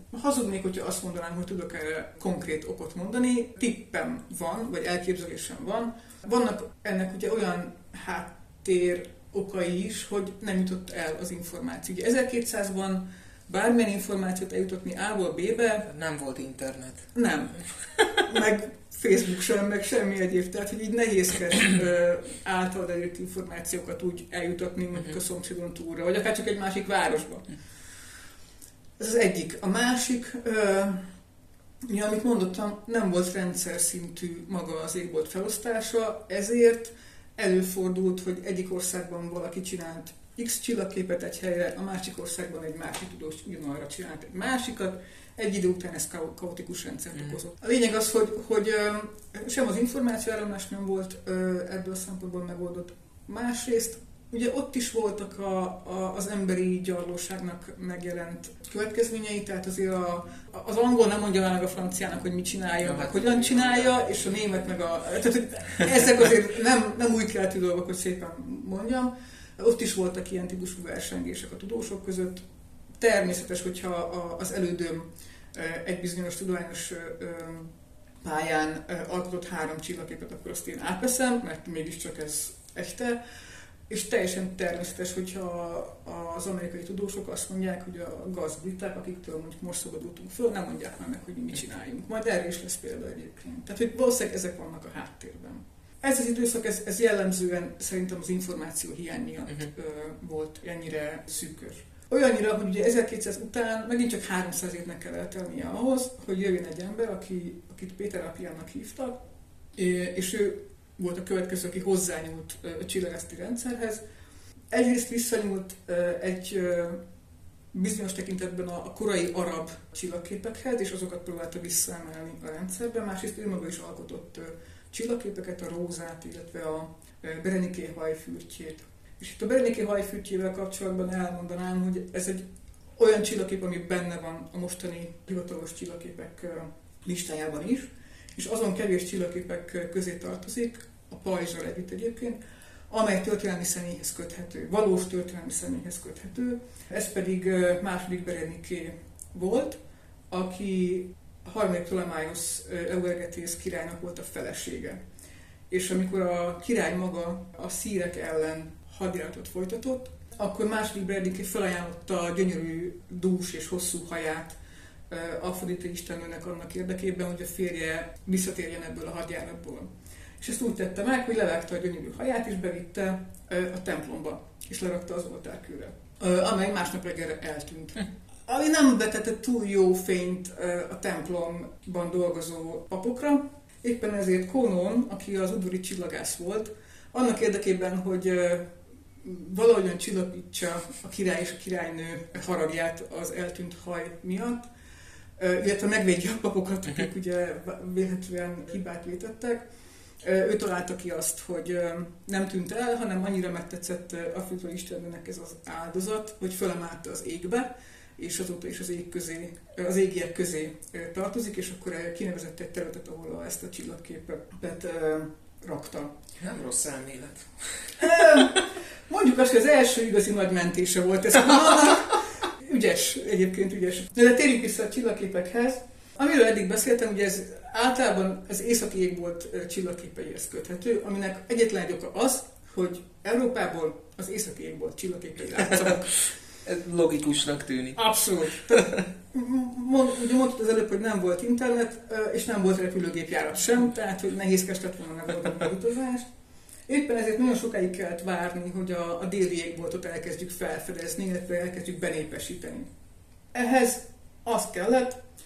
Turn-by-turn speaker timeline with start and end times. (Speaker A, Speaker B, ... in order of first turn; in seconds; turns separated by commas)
Speaker A: 0.1-15.9, Speaker B: 15.8-17.1, Speaker A: 17.1-27.5, Speaker B: 17.9-18.2, Speaker A: 29.0-31.1, Speaker A: 31.8-72.4, Speaker B: 62.8-64.0, Speaker A: 73.0-83.2, Speaker A: 83.9-109.2, Speaker A: 109.8-114.0, Speaker A: 114.7-117.0, Speaker A: 117.7-132.4, Speaker A: 133.0-149.8, Speaker A: 150.3-155.0, Speaker A: 155.7-164.6, Speaker A: 165.1-188.7, Speaker A: 189.2-194.7, Speaker A: 195.4-199.7, Speaker A: 200.2-216.2, Speaker B: 216.4-218.4, Speaker A: 218.0-236.3, Speaker B: 236.6-238.0, Speaker A: 238.0-246.3, Speaker A: 246.9-252.9, Speaker A: 253.5-255.2